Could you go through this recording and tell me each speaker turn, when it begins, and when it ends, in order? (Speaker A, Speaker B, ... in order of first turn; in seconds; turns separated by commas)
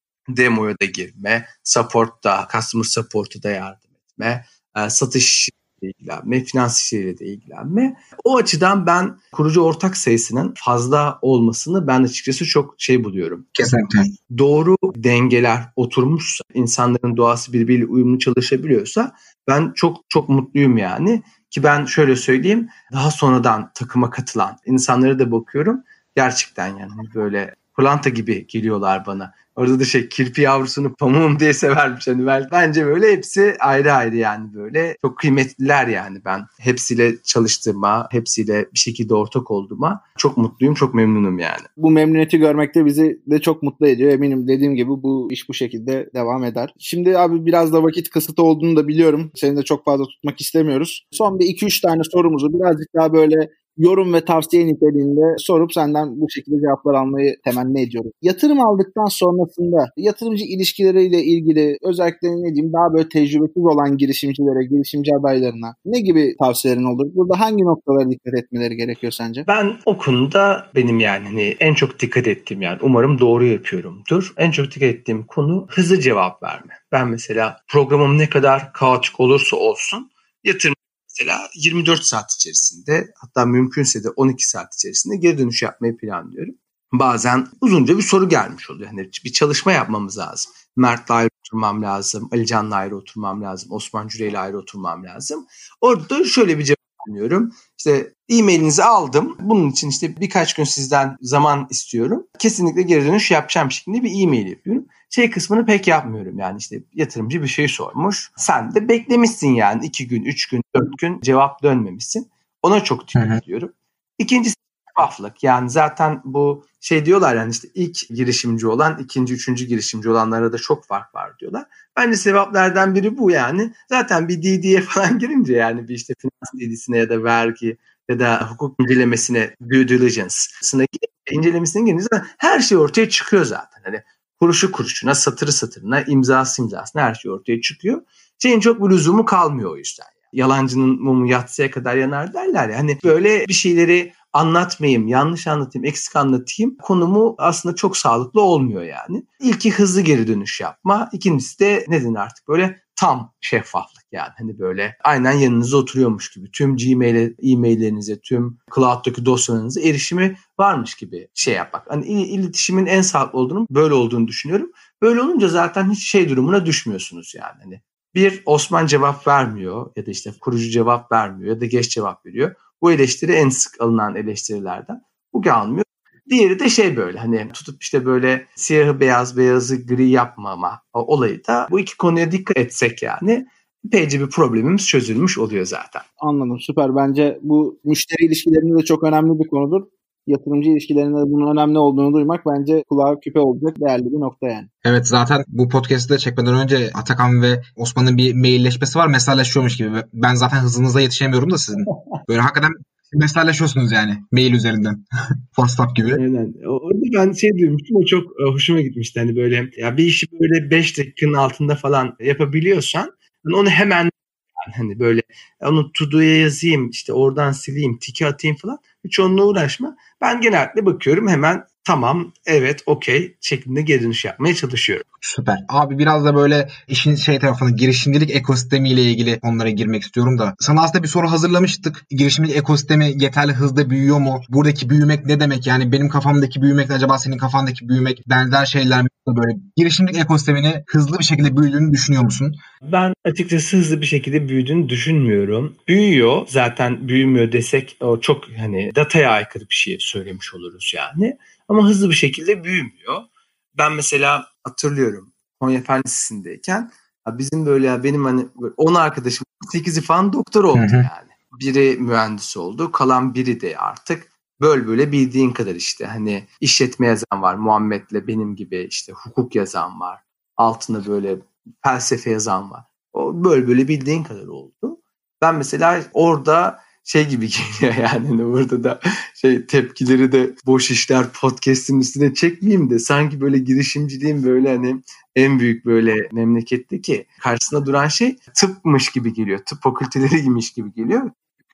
Speaker A: 0.3-13.5, Speaker B: 13.5-14.1, Speaker A: 14.3-41.7, Speaker C: 41.8-69.4, Speaker A: 69.5-186.0, Speaker B: 113.2-113.4, Speaker C: 186.2-194.7, Speaker B: 194.8-205.0, Speaker B: 205.5-206.2, Speaker A: 206.1-225.0, Speaker B: 225.2-242.6, Speaker A: 242.8-291.3, Speaker B: 260.7-261.1